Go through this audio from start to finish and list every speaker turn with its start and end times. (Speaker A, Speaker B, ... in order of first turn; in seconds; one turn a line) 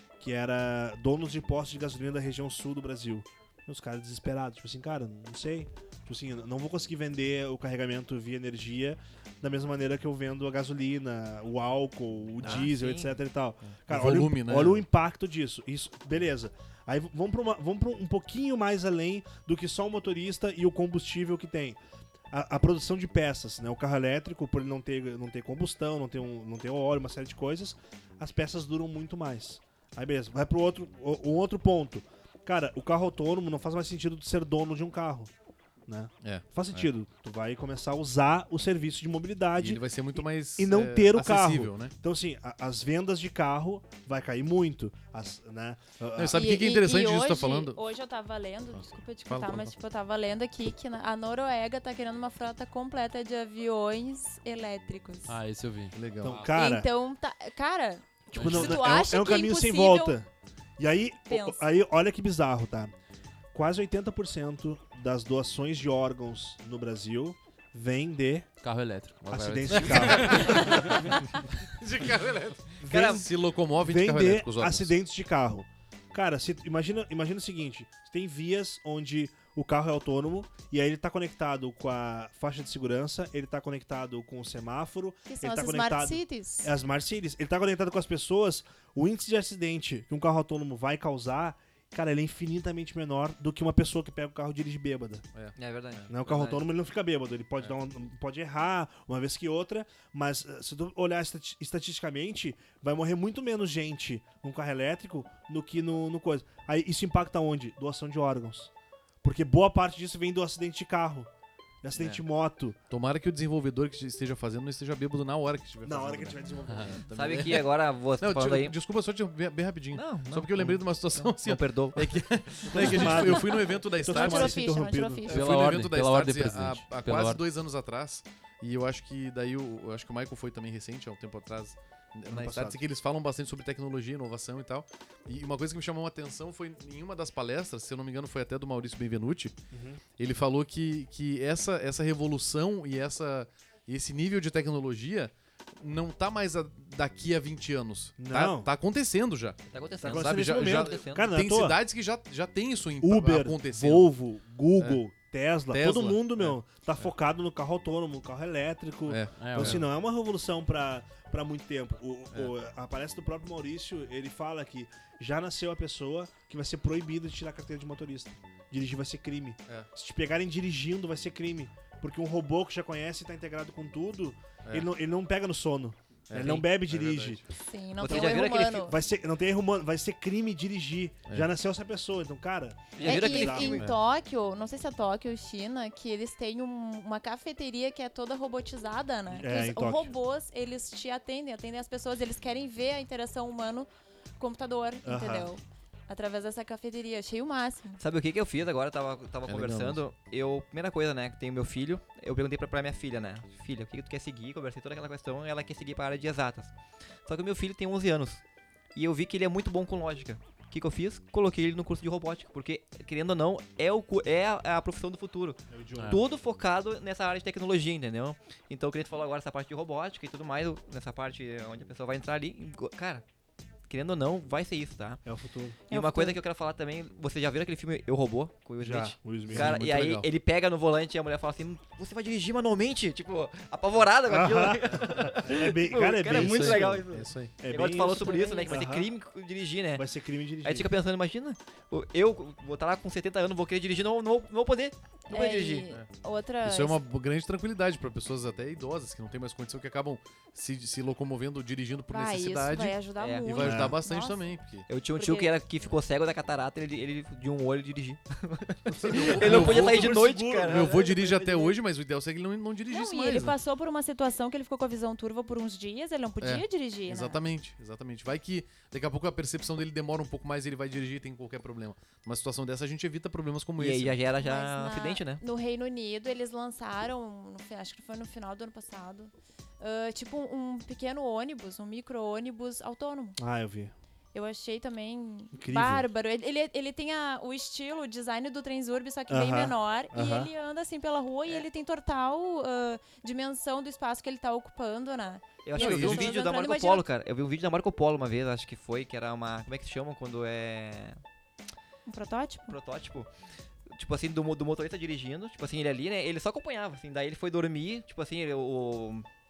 Speaker A: 0.2-21.8
Speaker B: 12.4-13.2
Speaker C: 13.7-14.8
Speaker A: 22.3-35.3
Speaker A: 35.9-46.5
Speaker C: 36.2-36.9
Speaker C: 39.6-41.9
Speaker C: 46.2-47.8
Speaker D: 46.3-55.4
Speaker C: 48.8-49.7
Speaker E: 55.3-56.5
Speaker C: 55.9-56.4
Speaker A: 56.2-56.9
Speaker D: 56.5-60.2
Speaker A: 58.3-62.9
Speaker E: 58.3-58.8
Speaker D: 61.3-61.7
Speaker A: 63.5-68.5
Speaker E: 68.6-71.2
Speaker A: 69.3-71.1
Speaker C: 69.7-74.9
Speaker A: 72.8-73.3
Speaker B: 72.9-73.3
Speaker A: 73.8-95.3
Speaker D: 85.3-86.7
Speaker C: 95.3-96.1
Speaker B: 95.6-96.6
Speaker A: 96.1-108.7
Speaker A: 109.2-111.3
Speaker A: 111.8-112.8
Speaker C: 112.9-124.7
Speaker A: 115.8-117.0
Speaker B: 117.1-118.8
Speaker B: 119.9-123.0
Speaker A: 122.7-125.3
Speaker D: 122.8-125.4
Speaker C: 125.3-139.6
Speaker E: 125.3-127.4
Speaker A: 132.3-132.8
Speaker A: 139.7-140.0
Speaker C: 140.2-154.1
Speaker A: 148.2-148.7
Speaker B: 149.7-151.4
Speaker A: 150.0-151.8
Speaker A: 153.0-177.4
Speaker C: 155.7-156.6
Speaker C: 159.1-159.8
Speaker E: 159.4-159.8
Speaker C: 176.3-177.5
Speaker D: 177.6-178.9
Speaker B: 178.0-178.9
Speaker A: 178.0-183.8
Speaker B: 183.0-183.9
Speaker D: 183.0-193.9
Speaker A: 189.3-190.1
Speaker D: 194.4-198.0
Speaker A: 195.1-195.5
Speaker B: 198.0-206.7
Speaker C: 199.5-200.0
Speaker B: 207.3-208.4
Speaker B: 208.9-223.2
Speaker A: 215.7-216.2
Speaker E: 216.0-216.2
Speaker B: 223.9-225.2
Speaker A: 225.2-225.8
Speaker D: 225.9-226.4
Speaker B: 225.9-240.1
Speaker A: 228.8-229.8
Speaker C: 229.5-230.3
Speaker A: 234.3-239.1
Speaker C: 236.3-237.6
Speaker D: 237.9-238.8
Speaker A: 239.9-240.9
Speaker B: 240.6-245.9
Speaker D: 245.3-247.0
Speaker C: 246.6-254.9
Speaker D: 252.1-254.6
Speaker B: 253.2-253.6
Speaker A: 253.6-254.0
Speaker B: 254.9-261.2
Speaker D: 255.2-255.6
Speaker A: 259.0-261.5
Speaker C: 259.0-263.6
Speaker D: 262.9-267.4
Speaker C: 266.4-274.2
Speaker B: 273.8-275.4
Speaker D: 274.4-283.4
Speaker A: 283.4-283.9
Speaker D: 284.3-297.1
Speaker A: 285.6-286.1
Speaker A: 289.3-290.5
Speaker B: 295.6-301.2
Speaker C: 295.8-296.4
Speaker D: 302.1-302.8
Speaker B: 302.7-303.3
Speaker B: 303.9-309.3